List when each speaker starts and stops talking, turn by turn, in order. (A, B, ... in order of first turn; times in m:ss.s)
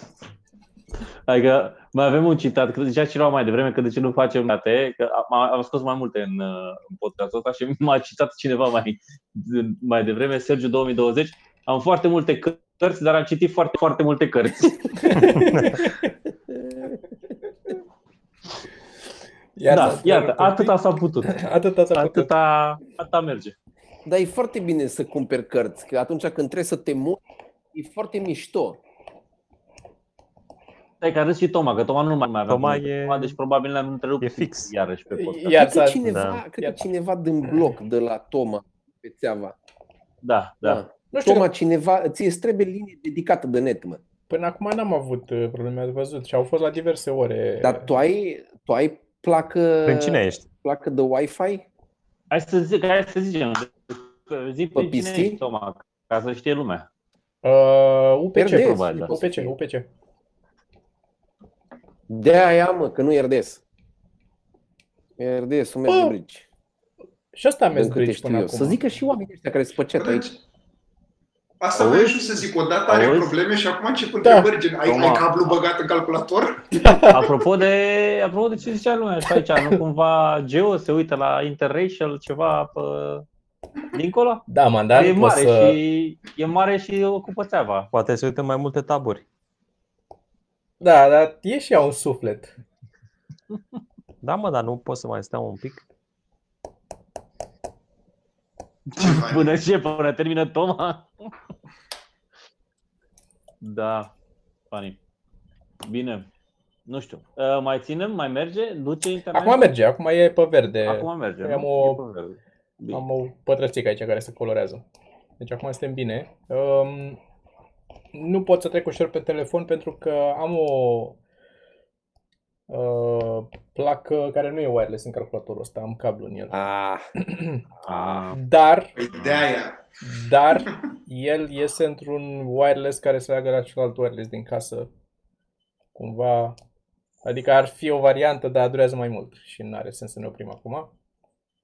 0:01.3-0:15.4 A
0:15.0-0:16.1 B
0:15.4-0:15.8 C
0:16.5-0:16.9 D
0:19.6-0:22.3 B
0:19.7-0:21.4 A
0:22.0-0:23.6 A
0:24.0-0:27.2 D
0:27.7-0:28.8 D
0:31.0-0:35.6 A
0:32.5-0:33.4 C
0:34.2-0:34.7 C
0:35.2-0:36.0 B
0:35.5-0:39.6 D
0:36.0-0:36.4 C
0:40.2-0:40.8 A
0:40.6-0:44.0 D
0:41.1-0:41.5 B
0:44.3-0:47.9 B
0:47.6-0:51.6 D
0:49.8-0:50.5 C
0:52.3-0:56.9 A
0:54.7-0:55.4 D
0:57.4-0:59.9 B
0:58.4-0:59.5 D
0:58.6-0:59.1 A
1:02.1-1:03.6 D
1:05.2-1:06.4 D
1:05.9-1:06.2 B
1:07.3-1:08.8 B
1:07.7-1:10.2 D
1:10.0-1:10.4 E
1:11.6-1:17.3 E
1:11.8-1:12.3 A
1:12.9-1:13.3 A
1:14.2-1:14.5 B
1:14.8-1:15.5 A
1:16.8-1:17.1 B
1:17.1-1:23.3 A
1:19.4-1:19.6 B
1:23.9-1:27.9 A
1:24.5-1:25.8 B
1:27.9-1:29.2 C
1:30.8-1:32.5 B
1:34.2-1:35.8 C
1:38.9-1:41.3 A
1:39.0-1:39.5 E
1:43.6-1:44.1 A
1:44.7-1:45.0 A
1:45.8-1:46.3 A
1:46.9-1:49.6 A
1:49.3-1:52.0 B
1:50.8-1:53.0 A
1:52.9-1:54.8 B
1:55.4-1:57.2 B
1:58.1-2:01.2 B
2:02.7-2:06.6 B
2:06.5-2:07.1 D
2:07.2-2:07.6 B
2:07.9-2:08.4 A
2:07.9-2:08.2 D
2:08.3-2:08.9 B
2:09.0-2:09.8 E
2:09.2-2:09.4 A
2:10.0-2:14.9 B
2:16.0-2:16.6 B
2:17.2-2:20.9 B